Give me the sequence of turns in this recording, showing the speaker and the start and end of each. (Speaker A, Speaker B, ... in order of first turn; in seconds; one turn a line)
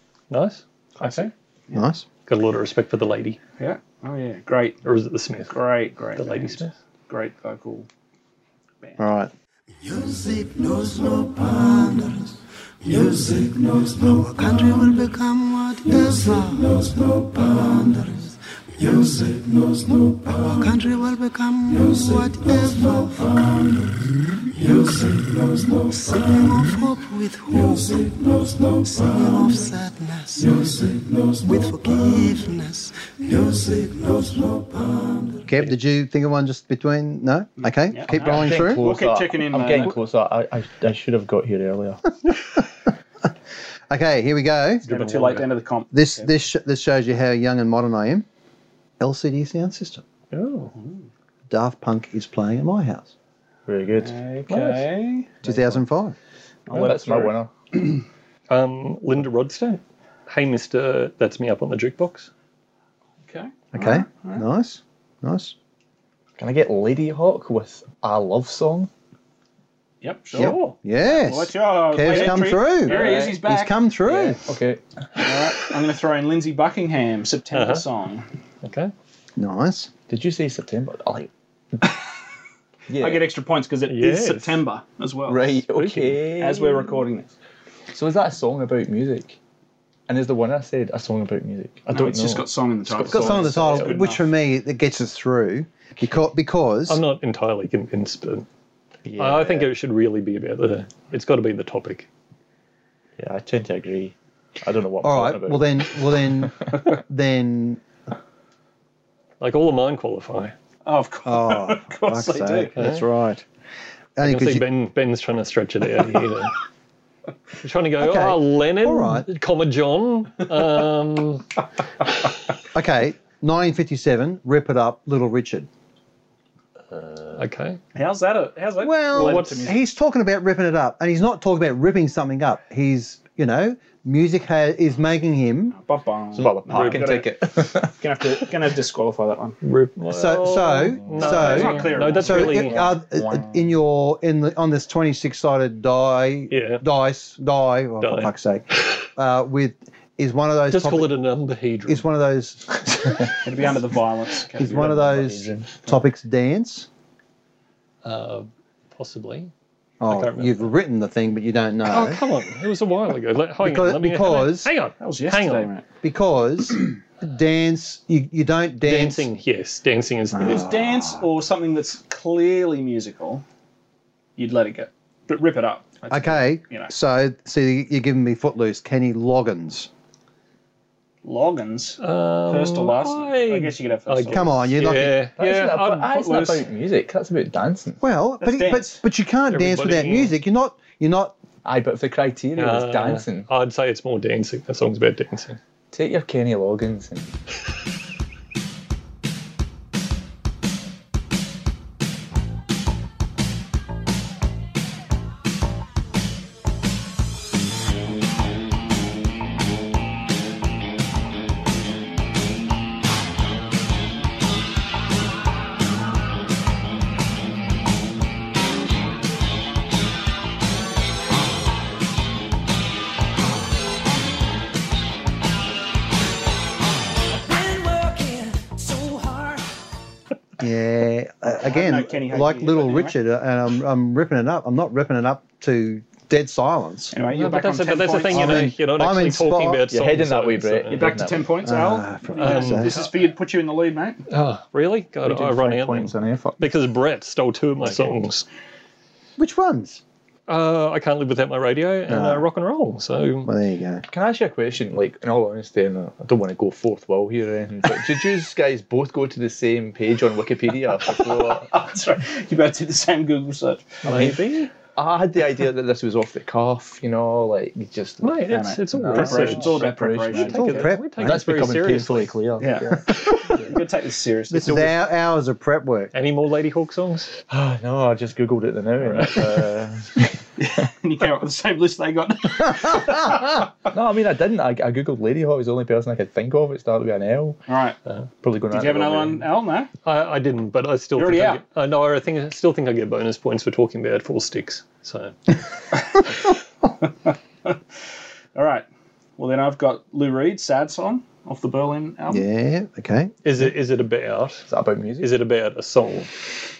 Speaker A: 0.3-1.3
Speaker B: 1.0-1.9
Speaker C: 1.7-2.0
Speaker A: 2.3-3.4
Speaker B: 3.6-4.8
Speaker A: 4.8-5.6
Speaker B: 5.5-7.9
Speaker A: 6.2-6.7
Speaker C: 9.0-9.3
Speaker D: 9.8-35.4
Speaker C: 35.5-38.9
Speaker B: 37.6-40.0
Speaker E: 38.1-42.0
Speaker C: 43.9-44.9
Speaker A: 44.9-45.5
Speaker B: 44.9-46.3
Speaker C: 45.9-48.3
Speaker C: 49.0-50.0
Speaker A: 50.3-50.7
Speaker B: 50.8-51.0
Speaker C: 51.5-53.1
Speaker E: 53.7-54.2
Speaker B: 54.0-55.4
Speaker A: 54.5-54.8
Speaker E: 55.4-55.8
Speaker C: 55.4-56.2
Speaker B: 56.7-57.4
Speaker E: 56.7-57.5
Speaker A: 58.5-62.3
Speaker B: 63.2-64.5
Speaker C: 63.7-65.5
Speaker E: 66.4-68.9
Speaker B: 70.0-73.8
Speaker A: 70.4-70.8
Speaker C: 70.4-74.4
Speaker E: 72.9-73.4
Speaker E: 74.0-75.2
Speaker B: 75.2-78.3
Speaker A: 77.5-77.8
Speaker A: 78.6-78.9
Speaker C: 79.4-79.9
Speaker E: 80.1-82.0
Speaker E: 82.9-83.3
Speaker B: 83.0-85.6
Speaker A: 83.9-84.6
Speaker E: 85.3-87.0
Speaker A: 85.8-86.2
Speaker B: 86.4-87.3
Speaker E: 87.9-89.4
Speaker E: 90.1-94.0
Speaker B: 91.9-94.3
Speaker C: 93.1-97.0
Speaker A: 96.9-98.5
Speaker E: 99.1-99.7
Speaker A: 99.2-102.1
Speaker E: 103.2-105.9
Speaker C: 105.0-107.8
Speaker A: 109.4-110.5
Speaker B: 110.8-112.7
Speaker C: 111.2-113.5
Speaker A: 112.8-113.0
Speaker C: 114.2-114.7
Speaker A: 114.2-116.5
Speaker A: 117.6-121.6
Speaker C: 118.0-119.3
Speaker C: 122.7-125.7
Speaker A: 127.3-127.8
Speaker B: 128.0-129.8
Speaker C: 128.8-135.8
Speaker A: 129.1-129.7
Speaker B: 135.8-139.6
Speaker E: 136.3-137.9
Speaker A: 136.7-137.1
Speaker A: 139.6-142.8
Speaker C: 140.1-151.1
Speaker B: 141.2-142.7
Speaker E: 141.8-143.7
Speaker A: 146.5-146.8
Speaker A: 148.0-148.3
Speaker A: 150.7-152.1
Speaker C: 151.9-153.4
Speaker B: 153.4-156.0
Speaker C: 154.6-156.9
Speaker E: 154.8-155.7
Speaker A: 158.0-159.5
Speaker C: 160.0-162.2
Speaker A: 160.1-160.7
Speaker A: 161.9-165.7
Speaker C: 163.6-164.7
Speaker B: 165.0-165.8
Speaker C: 166.0-169.3
Speaker A: 168.8-170.7
Speaker C: 170.3-171.2
Speaker B: 170.4-173.4
Speaker B: 174.4-176.9
Speaker C: 176.1-179.9
Speaker B: 181.2-184.7
Speaker A: 182.0-186.6
Speaker C: 184.3-185.2
Speaker E: 185.4-188.0
Speaker B: 186.1-186.6
Speaker C: 188.0-191.3
Speaker B: 188.4-189.0
Speaker A: 189.5-190.3
Speaker E: 191.7-193.5
Speaker A: 192.6-195.6
Speaker E: 195.9-197.3
Speaker D: 227.5-229.6
Speaker C: 230.6-237.1
Speaker B: 231.5-233.2
Speaker B: 237.1-238.7
Speaker A: 237.3-241.1
Speaker C: 238.3-239.8
Speaker E: 239.9-241.5
Speaker B: 240.9-244.2
Speaker C: 241.7-242.9
Speaker A: 242.4-243.1
Speaker A: 244.3-248.5
Speaker E: 245.2-246.7
Speaker C: 249.4-250.0
Speaker A: 250.5-253.5
Speaker C: 252.1-252.4
Speaker C: 253.4-254.1
Speaker E: 254.1-261.7
Speaker B: 261.0-264.4
Speaker A: 264.1-264.7
Speaker E: 264.1-268.4
Speaker A: 268.2-272.4
Speaker B: 268.5-270.9
Speaker E: 268.9-273.7
Speaker C: 270.5-271.4
Speaker B: 272.6-275.0
Speaker C: 274.5-276.1
Speaker A: 276.1-277.4
Speaker E: 277.5-280.4
Speaker A: 279.1-279.5
Speaker B: 280.6-283.6
Speaker E: 283.9-287.6
Speaker B: 287.7-288.0
Speaker E: 288.4-289.5
Speaker B: 288.7-289.9
Speaker A: 290.1-295.6
Speaker B: 291.1-291.6
Speaker B: 297.3-297.8
Speaker B: 298.6-298.9
Speaker B: 299.4-302.5
Speaker C: 302.3-303.7
Speaker A: 303.4-304.7
Speaker E: 304.7-305.3
Speaker A: 305.2-306.4